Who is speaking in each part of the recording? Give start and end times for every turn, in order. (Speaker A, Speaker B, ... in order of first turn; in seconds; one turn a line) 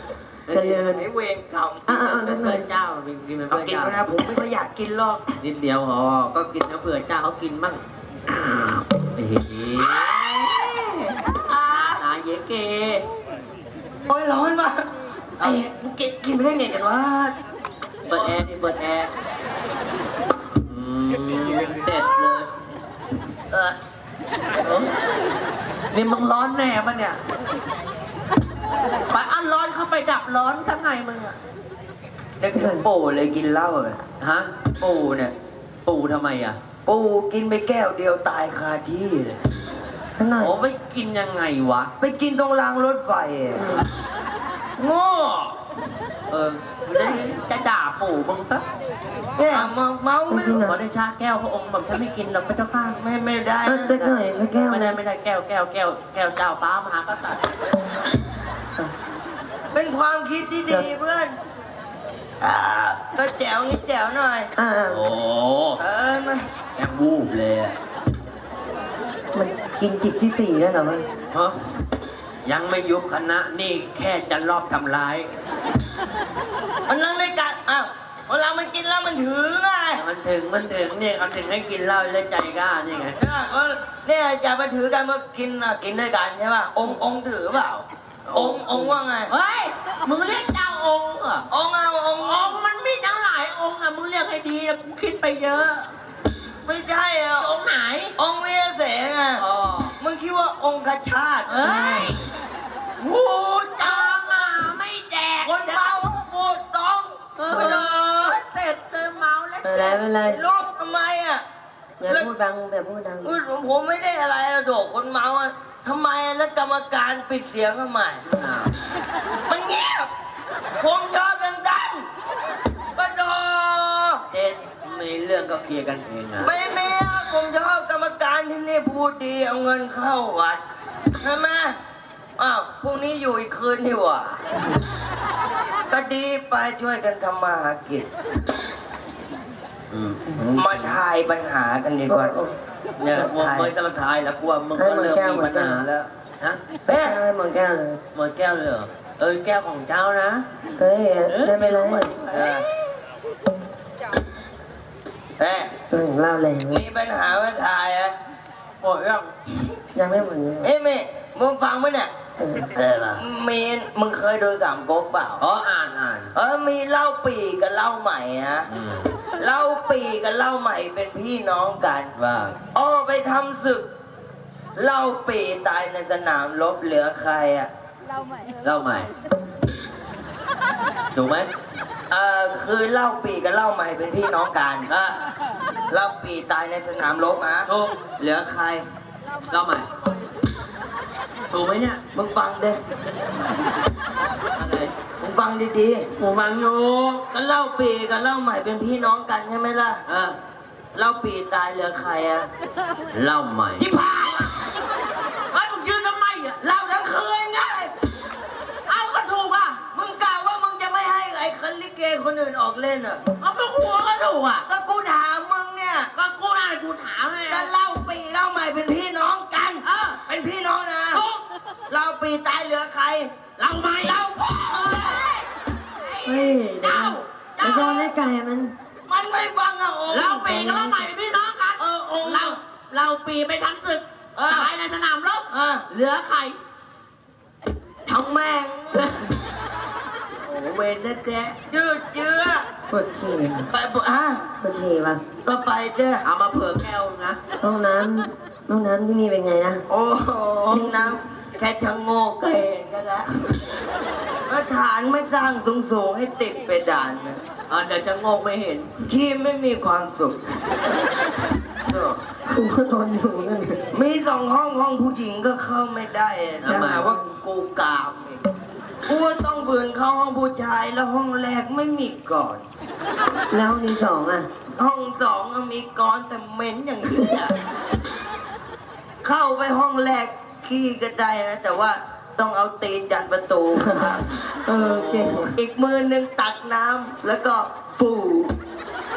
Speaker A: 0.5-0.9
Speaker B: 0.5-1.1
Speaker C: 0.8-2.2
Speaker B: 1.9-2.7
Speaker A: 2.0-4.0
Speaker C: 3.5-5.2
Speaker A: 5.4-13.1
Speaker C: 14.1-14.9
Speaker A: 15.4-15.7
Speaker C: 15.4-17.4
Speaker A: 18.1-19.1
Speaker A: 20.6-22.5
Speaker C: 23.5-23.8
Speaker A: 24.6-24.9
Speaker A: 25.9-27.2
Speaker A: 29.1-31.4
Speaker C: 32.4-34.0
Speaker B: 32.5-32.9
Speaker A: 34.2-34.5
Speaker C: 34.8-35.3
Speaker A: 35.9-36.6
Speaker C: 36.9-39.4
Speaker B: 40.2-40.5
Speaker A: 40.4-41.9
Speaker C: 42.0-43.8
Speaker B: 43.5-43.9
Speaker C: 44.8-45.6
Speaker A: 46.3-48.6
Speaker C: 49.4-50.6
Speaker B: 50.3-50.8
Speaker A: 50.6-53.0
Speaker C: 52.9-54.2
Speaker B: 53.6-55.0
Speaker A: 54.7-57.5
Speaker C: 59.7-61.4
Speaker C: 62.4-64.5
Speaker B: 64.6-65.0
Speaker A: 64.9-65.8
Speaker C: 65.8-66.5
Speaker A: 66.8-67.8
Speaker B: 69.3-71.0
Speaker A: 72.5-75.3
Speaker C: 76.9-80.0
Speaker A: 80.0-83.2
Speaker C: 83.2-89.3
Speaker A: 88.3-91.5
Speaker C: 91.5-92.6
Speaker A: 92.2-95.9
Speaker C: 96.7-97.5
Speaker A: 97.4-98.2
Speaker C: 98.2-99.4
Speaker A: 99.4-99.9
Speaker C: 100.0-102.2
Speaker A: 101.5-102.2
Speaker A: 103.0-106.0
Speaker C: 103.8-104.3
Speaker C: 105.4-108.4
Speaker A: 107.4-110.0
Speaker B: 109.6-110.4
Speaker C: 110.2-111.4
Speaker B: 112.0-113.4
Speaker C: 113.2-118.2
Speaker A: 118.2-118.7
Speaker C: 119.5-120.1
Speaker C: 120.8-122.1
Speaker C: 123.0-124.2
Speaker A: 124.3-126.5
Speaker C: 126.4-130.6
Speaker C: 131.2-131.8
Speaker C: 132.4-134.4
Speaker C: 135.9-138.1
Speaker A: 139.9-141.0
Speaker C: 140.6-142.4
Speaker B: 142.1-142.5
Speaker A: 143.0-146.6
Speaker C: 143.1-143.7
Speaker B: 144.8-145.8
Speaker C: 146.9-147.2
Speaker B: 146.9-148.0
Speaker A: 148.1-150.4
Speaker B: 150.8-152.2
Speaker A: 151.3-152.6
Speaker C: 152.3-152.7
Speaker C: 155.4-155.8
Speaker B: 155.9-156.8
Speaker C: 156.7-158.2
Speaker A: 158.8-159.3
Speaker B: 159.9-160.7
Speaker C: 160.6-162.1
Speaker B: 162.4-162.7
Speaker A: 162.8-163.2
Speaker C: 163.1-165.4
Speaker A: 165.4-166.3
Speaker C: 166.3-168.7
Speaker A: 168.7-169.2
Speaker C: 169.4-172.1
Speaker A: 172.2-172.6
Speaker C: 172.7-173.9
Speaker C: 174.8-177.7
Speaker A: 178.6-179.1
Speaker A: 181.1-181.5
Speaker C: 182.1-184.9
Speaker A: 184.9-185.2
Speaker C: 185.9-188.9
Speaker A: 187.7-188.0
Speaker A: 189.5-189.9
Speaker A: 191.5-192.0
Speaker C: 192.1-192.8
Speaker A: 194.6-194.9
Speaker C: 195.2-196.1
Speaker A: 196.2-197.2
Speaker C: 197.3-200.0
Speaker A: 200.1-200.4
Speaker C: 200.9-202.5
Speaker A: 203.1-203.9
Speaker C: 203.8-204.5
Speaker A: 205.5-206.6
Speaker C: 206.6-207.9
Speaker A: 208.9-209.8
Speaker C: 209.9-213.2
Speaker A: 213.4-214.7
Speaker C: 214.7-216.1
Speaker A: 216.2-217.7
Speaker C: 217.5-221.2
Speaker A: 219.8-220.2
Speaker A: 221.1-221.4
Speaker C: 221.9-223.3
Speaker A: 223.6-225.5
Speaker C: 224.0-225.2
Speaker A: 226.0-228.1
Speaker B: 226.2-228.7
Speaker C: 227.6-228.1
Speaker C: 229.1-230.7
Speaker A: 230.1-236.6
Speaker B: 230.5-231.1
Speaker C: 231.8-232.6
Speaker C: 234.4-234.7
Speaker C: 235.5-235.8
Speaker C: 238.1-239.1
Speaker A: 238.9-239.2
Speaker A: 240.4-241.6
Speaker C: 241.7-242.7
Speaker B: 242.9-243.7
Speaker C: 243.7-244.5
Speaker B: 244.6-245.2
Speaker C: 245.4-246.2
Speaker A: 246.2-247.4
Speaker B: 247.6-249.8
Speaker C: 249.9-252.6
Speaker B: 250.7-251.2
Speaker A: 252.5-253.3
Speaker C: 254.5-257.4
Speaker A: 257.7-258.9
Speaker C: 259.0-260.4
Speaker C: 261.9-262.2
Speaker B: 262.5-263.8
Speaker C: 263.9-268.4
Speaker A: 266.6-267.1
Speaker B: 266.7-267.2
Speaker C: 269.1-272.7
Speaker B: 273.5-274.5
Speaker C: 274.8-277.6
Speaker C: 279.2-284.3
Speaker B: 283.8-285.5
Speaker A: 284.7-285.5
Speaker C: 285.5-288.5